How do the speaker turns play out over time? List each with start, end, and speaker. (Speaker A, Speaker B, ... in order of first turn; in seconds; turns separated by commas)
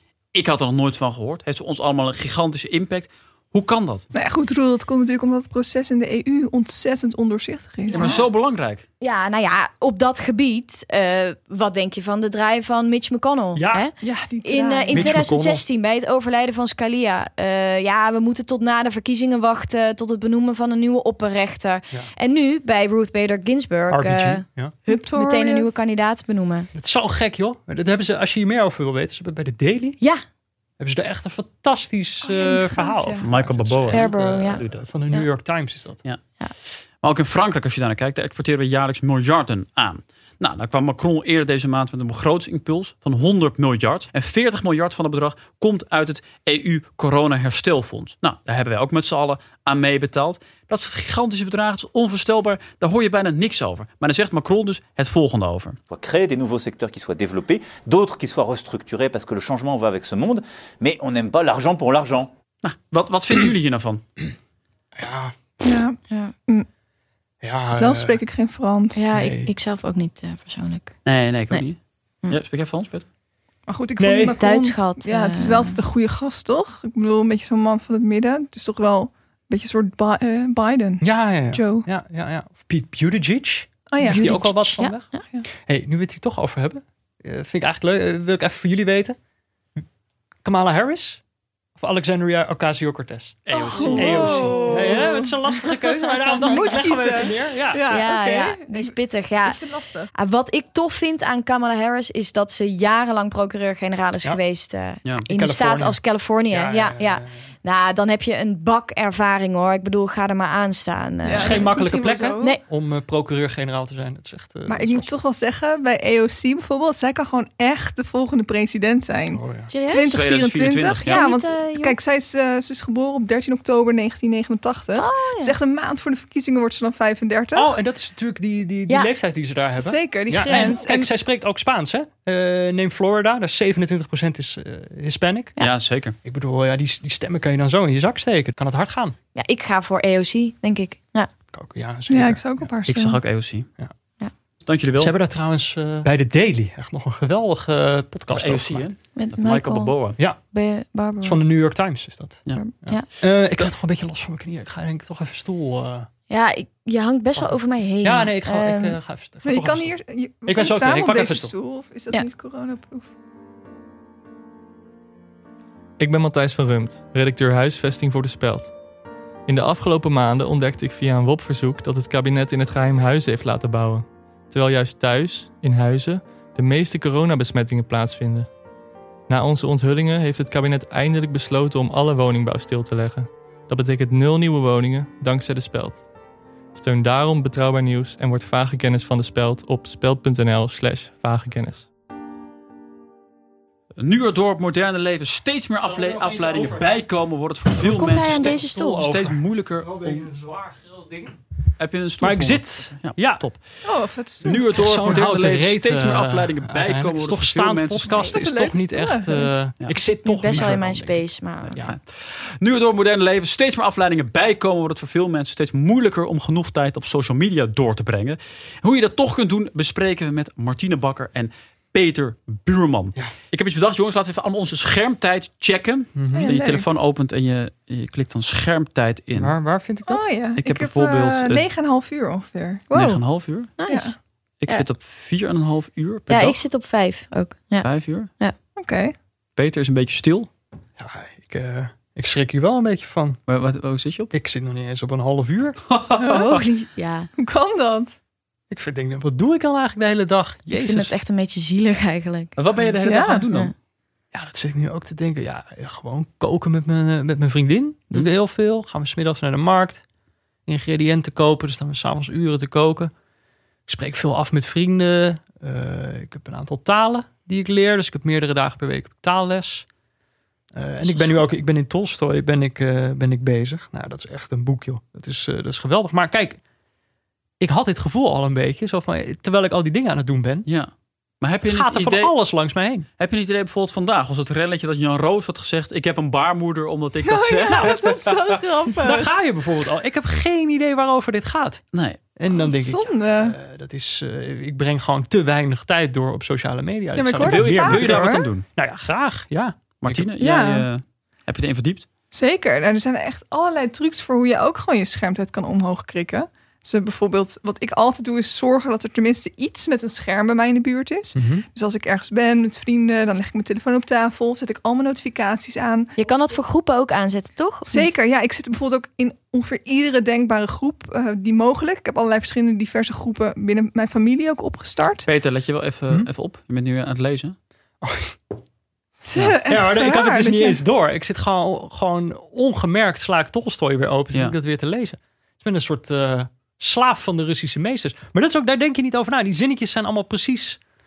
Speaker A: 0.3-4.0, Speaker B: 4.1-8.3, Speaker A: 7.9-8.8, Speaker C: 9.0-26.7, Speaker D: 13.6-13.9, Speaker B: 14.0-15.1, Speaker D: 14.9-15.6, Speaker D: 23.9-24.8, Speaker B: 24.9-25.8, Speaker D: 26.8-30.0, Speaker D: 30.8-36.0, Speaker B: 32.2-33.3, Speaker A: 33.2-34.9, Speaker C: 33.9-35.3, Speaker A: 37.0-55.8, Speaker E: 55.9-62.3, Speaker A: 62.6-64.0, Speaker D: 65.0-65.3, Speaker B: 65.6-66.7, Speaker C: 66.1-66.3, Speaker D: 67.4-68.2, Speaker B: 67.7-69.0, Speaker C: 68.9-70.9, Speaker D: 69.1-69.5, Speaker A: 71.0-73.1, Speaker B: 73.7-81.9, Speaker D: 74.0-74.4, Speaker C: 74.4-75.8, Speaker D: 81.0-89.2, Speaker B: 83.9-84.4, Speaker C: 84.0-85.2, Speaker D: 90.4-91.2, Speaker D: 91.8-97.8, Speaker A: 93.5-94.5, Speaker B: 93.6-95.3, Speaker C: 93.7-94.9, Speaker B: 96.0-100.1, Speaker C: 97.8-99.6, Speaker C: 100.1-111.8, Speaker D: 105.3-107.4, Speaker B: 111.3-112.5, Speaker D: 111.3-115.2, Speaker C: 112.3-112.6, Speaker B: 114.7-127.7, Speaker D: 119.3-119.7, Speaker C: 119.7-120.0, Speaker A: 120.1-121.3, Speaker C: 120.8-122.0, Speaker C: 124.9-125.6, Speaker D: 127.5-135.5, Speaker B: 129.8-131.1, Speaker A: 135.6-136.2, Speaker D: 136.2-139.2, Speaker C: 139.3-141.3, Speaker D: 141.5-142.7, Speaker B: 142.1-143.2, Speaker A: 142.8-143.7, Speaker A: 144.7-145.1, Speaker D: 145.0-148.9, Speaker A: 148.3-150.2, Speaker C: 149.2-149.9, Speaker C: 150.5-151.4, Speaker D: 151.2-156.1, Speaker C: 152.5-153.1, Speaker C: 156.3-159.0, Speaker D: 157.4-161.5, Speaker B: 159.4-163.1, Speaker F: 166.0-168.7, Speaker F: 169.5-178.5, Speaker F: 179.3-186.1, Speaker F: 186.8-191.9, Speaker A: 194.0-200.3, Speaker D: 195.8-197.0, Speaker C: 197.8-199.1, Speaker D: 197.9-201.4, Speaker A: 201.8-208.3, Speaker D: 202.2-203.5, Speaker B: 203.8-204.8, Speaker D: 204.7-212.0, Speaker B: 208.2-209.5, Speaker C: 210.2-211.8, Speaker A: 211.7-229.5, Speaker D: 226.2-226.5, Speaker B: 226.3-226.9, Speaker D: 229.4-230.2, Speaker B: 230.0-233.2, Speaker A: 230.5-231.7, Speaker A: 232.9-233.7, Speaker C: 233.8-234.2, Speaker B: 233.9-234.2, Speaker A: 234.6-236.6, Speaker C: 236.3-237.9, Speaker A: 237.8-238.3, Speaker B: 238.8-239.2, Speaker A: 239.6-240.5, Speaker D: 241.0-243.4, Speaker A: 243.5-244.3, Speaker D: 244.3-245.8, Speaker A: 245.9-246.5, Speaker B: 246.2-246.5, Speaker C: 246.2-247.3, Speaker B: 247.4-248.2, Speaker D: 248.7-251.1, Speaker C: 250.7-252.6, Speaker A: 252.6-253.7, Speaker B: 253.0-253.5, Speaker D: 254.3-260.1, Speaker D: 260.7-263.1, Speaker D: 263.9-269.9, Speaker D: 270.7-276.6, Speaker C: 271.0-271.7, Speaker D: 277.6-280.7, Speaker A: 280.7-282.3, Speaker D: 281.7-283.1, Speaker A: 283.2-288.6, Speaker B: 287.2-289.3, Speaker D: 289.0-291.8, Speaker A: 291.9-292.2, Speaker D: 292.4-298.2, Speaker B: 292.5-293.6, Speaker B: 297.1-298.5, Speaker A: 297.4-298.7, Speaker D: 298.8-300.3, Speaker A: 300.0-302.1, Speaker B: 300.4-300.9, Speaker B: 302.3-316.1, Speaker D: 311.4-311.6, Speaker C: 316.2-318.1, Speaker B: 317.9-325.3, Speaker A: 325.2-327.6, Speaker D: 328.0-328.5, Speaker B: 329.2-330.8, Speaker D: 329.4-340.8